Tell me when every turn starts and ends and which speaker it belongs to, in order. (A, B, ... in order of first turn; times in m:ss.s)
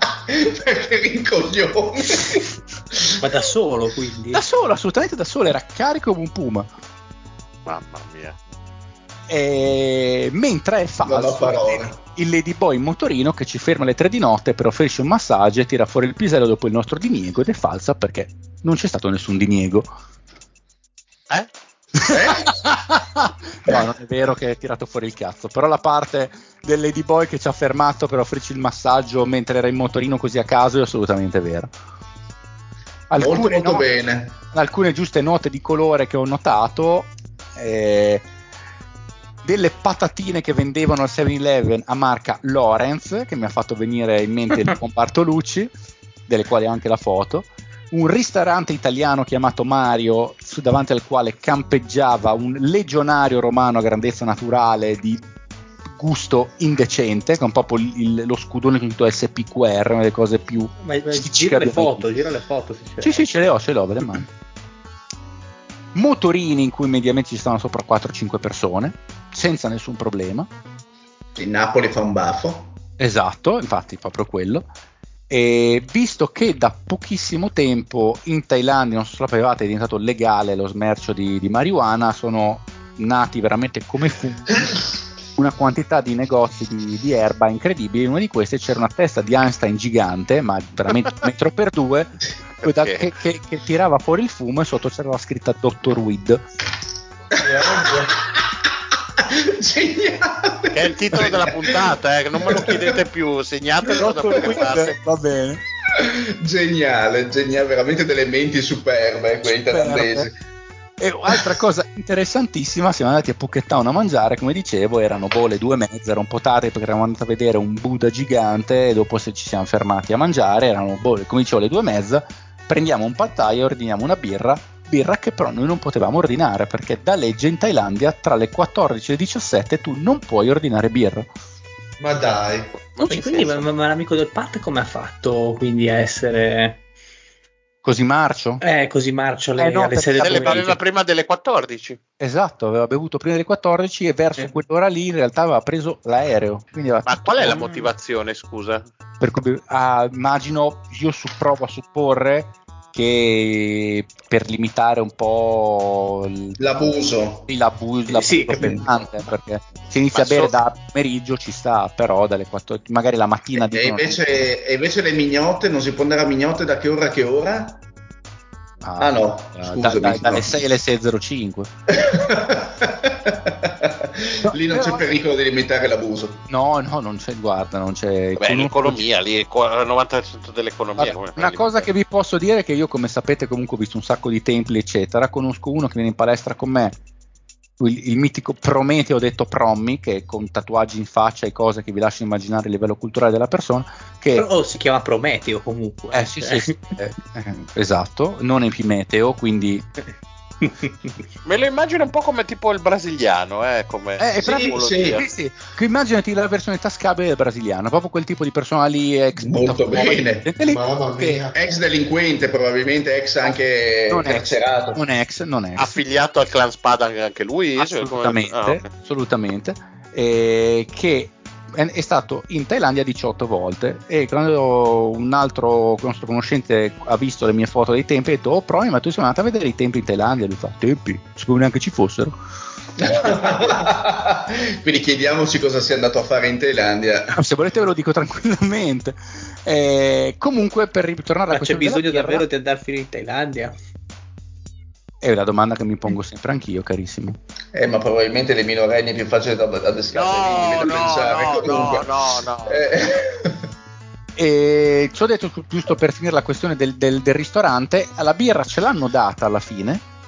0:00.3-0:03.2 A
0:03.2-0:04.4 B
0:04.3-0:06.7 C
0:07.6-0:08.4 D
0:09.3-0:19.9 C
0:11.0-0:11.9 A
0:22.0-0:31.7 C
0:22.0-0:22.6 A
0:33.1-0:33.9 C
0:33.2-0:34.4 A
0:34.5-0:38.2 C
0:39.4-0:45.7 C
0:46.3-0:55.2 C
0:55.9-1:02.1 C
1:00.8-1:03.2 B
1:03.0-1:04.3 C
1:05.9-1:10.5 C
1:11.4-1:12.7 A
1:13.0-1:14.7 C
1:15.3-1:24.8 C
1:25.4-1:36.4 C
1:32.6-1:33.1 D
1:37.4-1:38.5 A
1:37.4-1:38.1 E
1:39.2-1:41.8 A
1:40.7-1:44.9 D
1:43.9-1:45.6 C
1:45.9-1:50.4 A
1:49.4-1:50.3 C
1:51.0-2:11.3 C
2:12.0-2:12.7 E
2:12.9-2:13.6 D
2:13.0-2:16.8 B
2:17.8-2:18.6 C
2:18.6-2:20.7 B
2:19.6-2:20.8 C
2:20.2-2:22.0 D
2:22.2-2:27.9 C
2:27.0-2:28.8 D
2:29.2-2:36.6 C
2:36.6-2:37.5 A
2:37.5-2:44.5 C
2:38.1-2:38.8 B
2:38.6-2:38.9 A
2:40.1-2:40.6 D
2:43.6-2:47.8 A
2:48.8-2:51.7 C
2:49.0-2:50.6 A
2:51.9-2:56.4 A
2:54.4-2:55.2 C
2:56.5-2:59.0 C
2:58.4-3:01.9 D
3:01.0-3:06.9 C
3:07.8-3:14.4 C
3:14.3-3:16.8 B
3:16.1-3:19.9 C
3:21.4-3:25.2 D
3:24.2-3:31.5 C
3:24.4-3:25.2 A
3:29.4-3:30.5 A
3:30.6-3:31.5 E
3:31.5-3:35.0 A
3:34.1-3:36.0 C
3:35.8-3:38.9 D
3:37.8-3:52.4 C
3:53.0-3:57.4 A
3:57.3-4:02.4 C
4:01.5-4:03.7 B
4:05.2-4:07.4 C
4:07.7-4:13.6 A
4:10.1-4:12.9 D
4:14.4-4:20.0 C